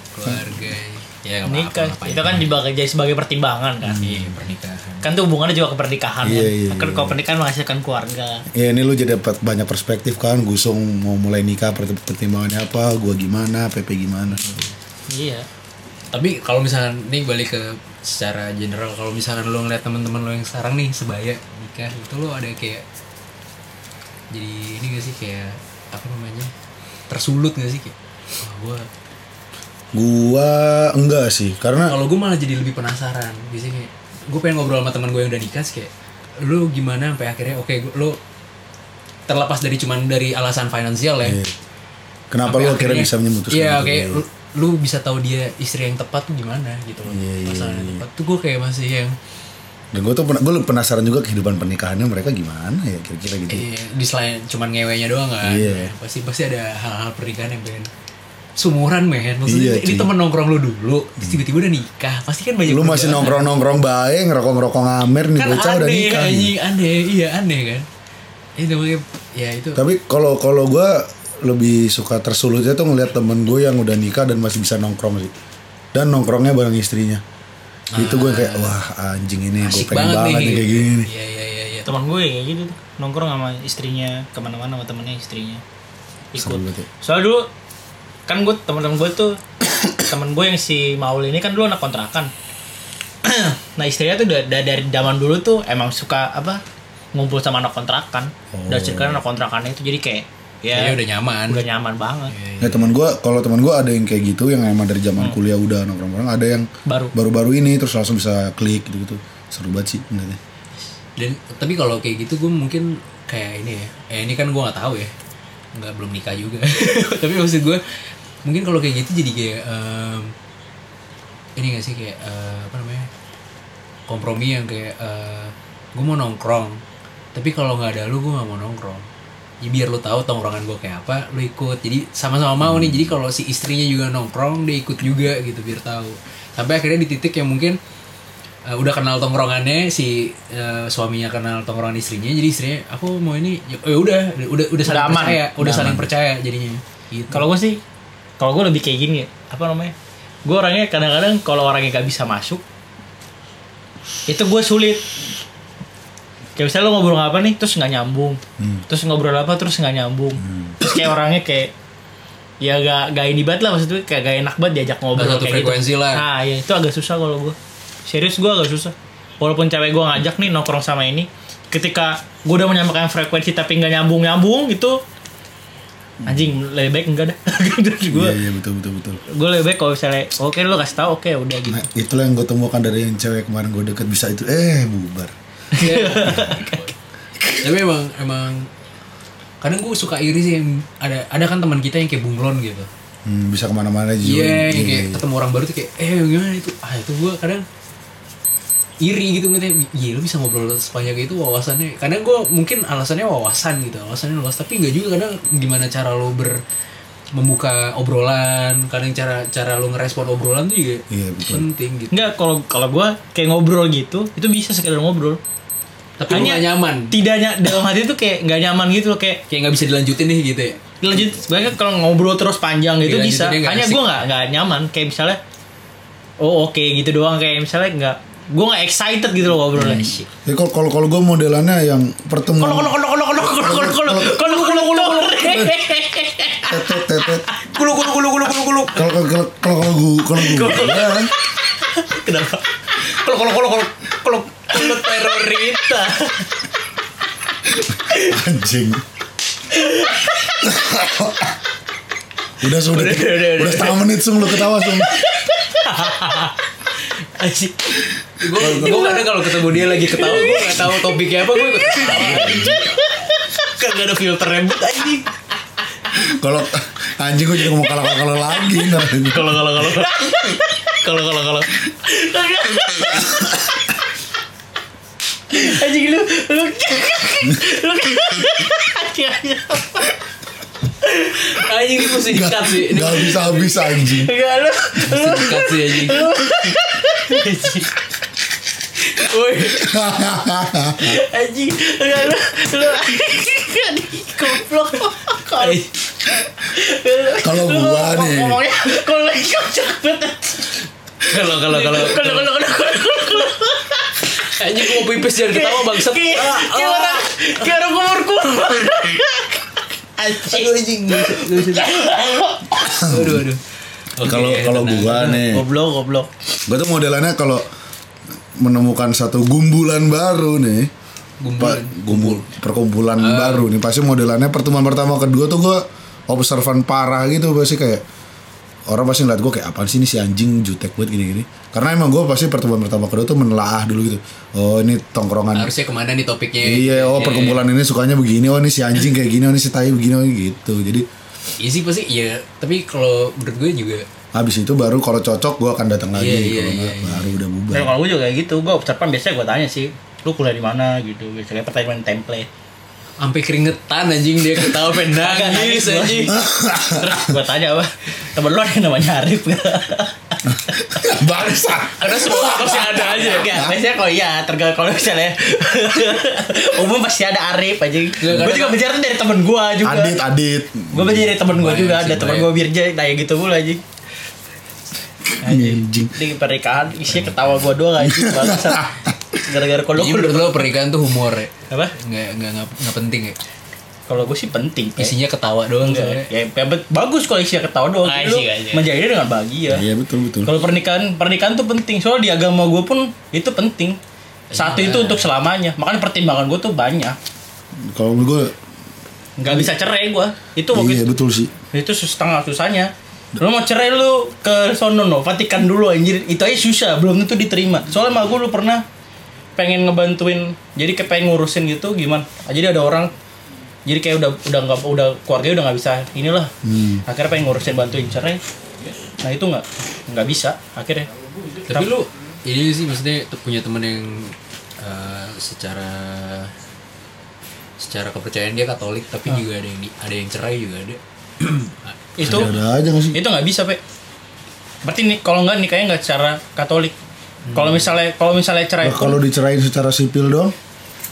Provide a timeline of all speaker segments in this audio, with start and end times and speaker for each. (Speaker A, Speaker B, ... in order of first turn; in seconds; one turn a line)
Speaker A: 0.1-2.4
Speaker B: 0.3-0.5
Speaker C: 1.5-4.0
Speaker B: 3.8-4.4
Speaker A: 4.0-5.1
Speaker C: 5.0-8.4
Speaker B: 6.2-7.2
Speaker B: 8.5-14.6
Speaker A: 14.3-14.8
Speaker C: 15.1-15.5
Speaker A: 16.1-22.8
Speaker A: 24.3-26.5
Speaker A: 27.1-28.9
Speaker B: 29.9-31.9
Speaker A: 31.9-38.2
Speaker A: 39.3-41.4
Speaker B: 41.2-41.5
Speaker B: 42.3-44.2
Speaker A: 42.4-49.2
Speaker B: 47.1-48.0
Speaker B: 49.9-53.6
Speaker A: 53.5-57.9
Speaker B: 55.4-55.9
Speaker A: 58.6-63.5
Speaker B: 59.5-60.1
Speaker B: 62.7-66.5
Speaker A: 65.4-67.9
Speaker A: 68.6-69.8
Speaker B: 69.8-75.3
Speaker B: 75.9-77.2
Speaker A: 77.9-78.8
Speaker B: 78.0-81.1
Speaker A: 79.6-81.9
Speaker C: 81.9-85.6
Speaker C: 86.3-87.5
Speaker B: 86.4-86.9
Speaker C: 88.3-89.4
Speaker C: 90.0-92.3
Speaker C: 93.2-96.6
Speaker C: 97.1-102.3
Speaker B: 98.5-99.2
Speaker A: 100.7-101.6
Speaker A: 102.3-103.0
Speaker B: 102.6-110.4
Speaker C: 106.9-107.2
Speaker A: 111.2-115.1
Speaker A: 115.8-117.8
Speaker A: 118.4-120.3
Speaker A: 121.6-123.1
Speaker A: 124.1-126.8
Speaker A: 127.3-129.1
Speaker A: 129.6-137.8
Speaker B: 132.7-133.1
Speaker A: 138.7-147.5
Speaker C: 144.8-145.4
Speaker B: 145.6-146.1
Speaker C: 147.3-147.8
Speaker C: 148.4-149.9
Speaker C: 150.4-152.6
Speaker C: 154.3-155.1
Speaker C: 156.6-161.7
Speaker B: 160.4-160.8
Speaker C: 162.6-167.6
Speaker A: 165.2-166.2
Speaker C: 168.1-175.0
Speaker C: 176.2-178.4
Speaker B: 176.3-176.5
Speaker B: 178.1-179.2
Speaker C: 179.3-181.8
Speaker B: 181.7-185.3
Speaker C: 185.7-186.9
Speaker A: 185.7-186.9
Speaker A: 187.6-188.7
Speaker A: 189.6-192.9
Speaker B: 193.2-195.2
Speaker A: 194.2-197.6
Speaker A: 199.0-206.6
Speaker A: 207.3-212.3
Speaker B: 211.1-211.7
Speaker C: 212.1-215.4
Speaker A: 216.2-217.2
Speaker C: 216.3-219.4
Speaker A: 219.5-220.8
Speaker C: 221.0-225.4
Speaker A: 223.0-224.0
Speaker C: 226.4-230.3
Speaker B: 229.8-234.7
Speaker C: 232.6-239.2
Speaker A: 234.9-235.2
Speaker B: 235.3-235.8
Speaker B: 236.7-237.5
Speaker B: 238.9-241.3
Speaker C: 240.4-246.7
Speaker A: 244.7-246.0
Speaker B: 247.9-249.0
Speaker C: 249.7-250.7
Speaker B: 250.6-251.6
Speaker B: 252.6-255.2
Speaker A: 252.7-254.0
Speaker C: 255.0-256.5
Speaker A: 255.9-263.0
Speaker B: 258.6-259.2
Speaker C: 258.7-265.4
Speaker B: 262.0-262.9
Speaker A: 263.9-265.1
Speaker B: 266.1-269.9
Speaker C: 267.7-268.0
Speaker C: 268.5-273.9
Speaker B: 272.9-273.6
Speaker C: 275.5-280.2
Speaker C: 281.0-282.1
Speaker A: 281.4-283.7
Speaker B: 282.3-284.3
Speaker C: 283.9-287.9
Speaker A: 285.0-286.3
Speaker A: 289.0-289.9
Speaker B: 289.6-291.2
Speaker C: 291.0-300.9
Speaker A: 295.6-295.9
Speaker B: 297.4-298.6
Speaker A: 301.2-302.5
Speaker C: 301.5-312.7
Speaker A: 304.3-307.7
Speaker A: 310.4-313.6
Speaker B: 312.9-313.4
Speaker A: 314.1-315.4
Speaker B: 314.2-315.7
Speaker C: 315.1-316.3
Speaker B: 316.7-317.7
Speaker B: 318.6-320.9
Speaker A: 321.4-322.5
Speaker B: 321.6-328.0
Speaker A: 323.2-323.7
Speaker B: 328.9-335.7
Speaker A: 335.5-337.6
Speaker B: 336.6-341.1
Speaker A: 341.6-344.1
Speaker B: 344.4-347.9
Speaker A: 346.1-347.4
Speaker C: 347.7-352.5
Speaker A: 353.2-356.4
Speaker C: 355.0-361.6
Speaker B: 356.3-357.3
Speaker B: 360.5-362.8
Speaker A: 362.0-363.7
Speaker C: 362.2-370.2
Speaker A: 368.2-368.8
Speaker B: 369.8-371.4
Speaker C: 370.9-373.8
Speaker A: 371.5-372.5
Speaker B: 375.4-376.2
Speaker C: 375.4-380.7
Speaker B: 377.1-379.1
Speaker A: 379.9-383.4
Speaker C: 381.7-381.9
Speaker C: 384.1-385.1
Speaker A: 385.0-386.3
Speaker C: 385.8-389.9
Speaker A: 388.0-388.9
Speaker B: 389.7-390.6
Speaker C: 390.4-394.0
Speaker A: 394.5-395.3
Speaker C: 394.6-397.2
Speaker B: 397.9-398.6
Speaker C: 399.4-401.1
Speaker B: 400.7-401.5
Speaker C: 401.7-408.8
Speaker C: 409.6-413.1
Speaker C: 413.9-416.5
Speaker B: 416.6-417.0
Speaker C: 417.1-418.4
Speaker C: 419.2-421.1
Speaker A: 421.7-426.5
Speaker A: 427.8-432.6
Speaker C: 432.2-432.5
Speaker B: 432.2-433.2
Speaker C: 433.1-433.8
Speaker C: 434.8-436.9
Speaker A: 437.5-437.9
Speaker C: 437.5-439.2
Speaker B: 438.8-440.5